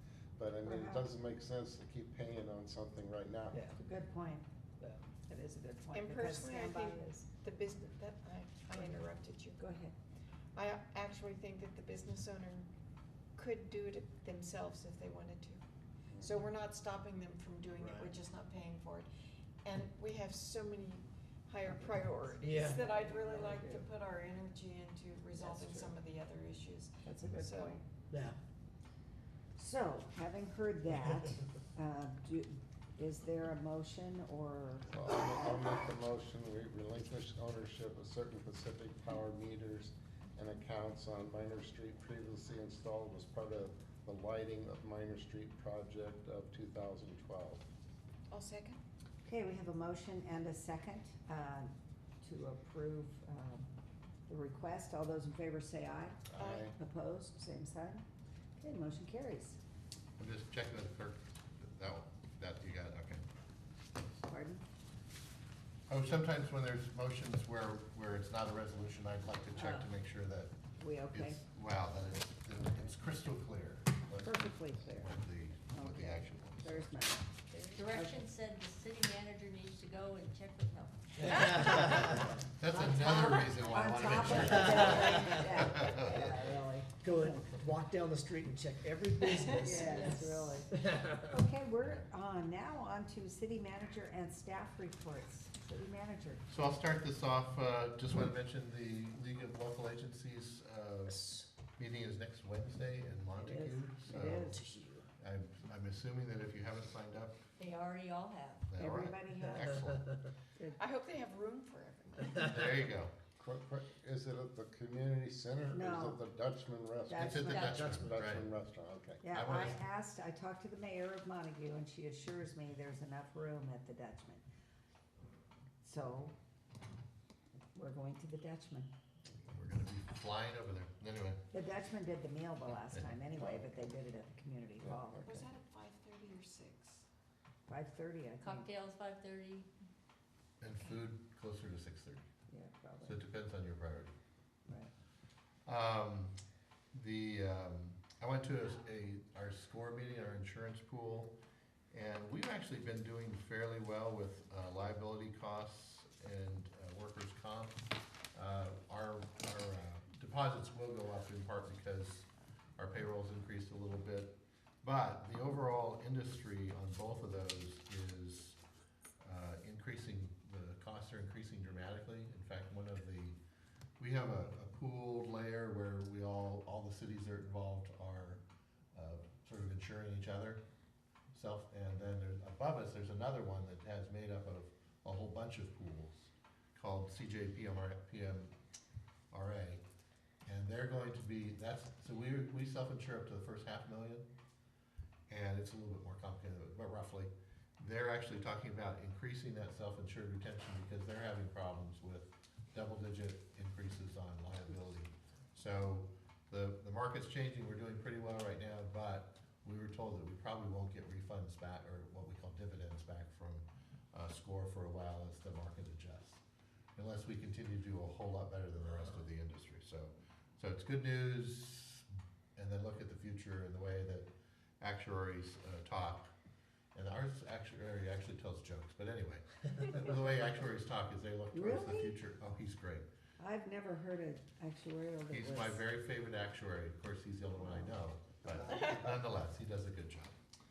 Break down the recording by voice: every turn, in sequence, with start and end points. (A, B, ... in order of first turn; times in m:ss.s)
0:00.4-0:03.6 A
0:00.6-0:01.1 B
0:03.5-0:03.8 C
0:03.8-0:04.5 B
0:04.8-0:05.0 C
0:05.3-0:07.1 B
0:05.9-0:09.6 D
0:08.7-0:09.0 B
0:09.6-0:10.0 B
0:10.6-0:12.7 D
0:13.4-0:15.6 D
0:16.2-0:19.1 D
0:17.8-0:18.1 C
0:19.6-0:27.8 D
0:21.7-0:23.8 B
0:22.4-0:22.8 C
0:25.4-0:25.8 C
0:27.1-0:27.8 B
0:28.1-0:28.4 C
0:29.6-0:34.9 B
0:34.9-0:47.6 A
0:48.3-0:48.8 D
0:49.2-0:53.7 B
0:54.3-0:58.0 B
0:56.4-0:56.6 A
0:56.4-0:56.7 D
0:58.6-0:59.6 B
1:00.2-1:03.2 E
1:04.2-1:04.6 B
1:05.9-1:10.5 E
1:10.8-1:11.4 B
1:11.1-1:16.9 E
1:14.2-1:15.2 B
1:15.7-1:17.3 B
1:17.5-1:22.1 F
1:17.9-1:18.2 B
1:21.2-1:22.3 C
1:22.6-1:26.3 E
1:22.7-1:27.6 B
1:23.1-1:23.5 F
1:24.4-1:25.4 C
1:26.1-1:26.4 C
1:27.0-1:31.3 C
1:29.6-1:36.4 B
1:29.6-1:30.6 F
1:36.5-1:44.6 E
1:41.1-1:41.4 C
1:43.4-1:44.6 B
1:44.4-1:45.1 C
1:45.2-1:47.4 E
1:47.6-1:48.7 F
1:48.7-1:50.1 E
1:48.8-1:49.7 B
1:50.8-1:52.6 D
1:52.5-1:53.1 E
1:53.4-1:59.2 A
1:55.7-1:56.2 B
1:57.1-1:57.8 B
1:57.2-1:58.5 E
1:59.2-2:04.4 B
1:59.3-1:59.8 E
2:05.8-2:06.4 B
2:07.8-2:08.9 B
2:09.5-2:11.4 E
2:11.5-2:15.4 B
2:12.9-2:13.2 E
2:15.2-2:17.0 D
2:17.7-2:18.7 B
2:18.4-2:19.7 F
2:20.6-2:22.2 E
2:22.5-2:23.2 B
2:23.0-2:24.1 E
2:25.7-2:26.4 E
2:26.9-2:31.3 E
2:31.9-2:48.6 E
2:49.2-2:53.4 E
2:54.0-2:58.4 E
2:58.9-3:00.6 E
3:01.3-3:08.5 E
3:09.3-3:09.8 E
3:10.4-3:14.3 E
3:15.3-3:36.4 E
3:37.0-3:44.3 E
3:44.8-3:46.3 E
3:46.9-3:53.1 E
3:51.5-3:52.2 B
3:53.4-3:55.8 B
3:55.3-4:00.4 E
3:57.6-3:57.9 B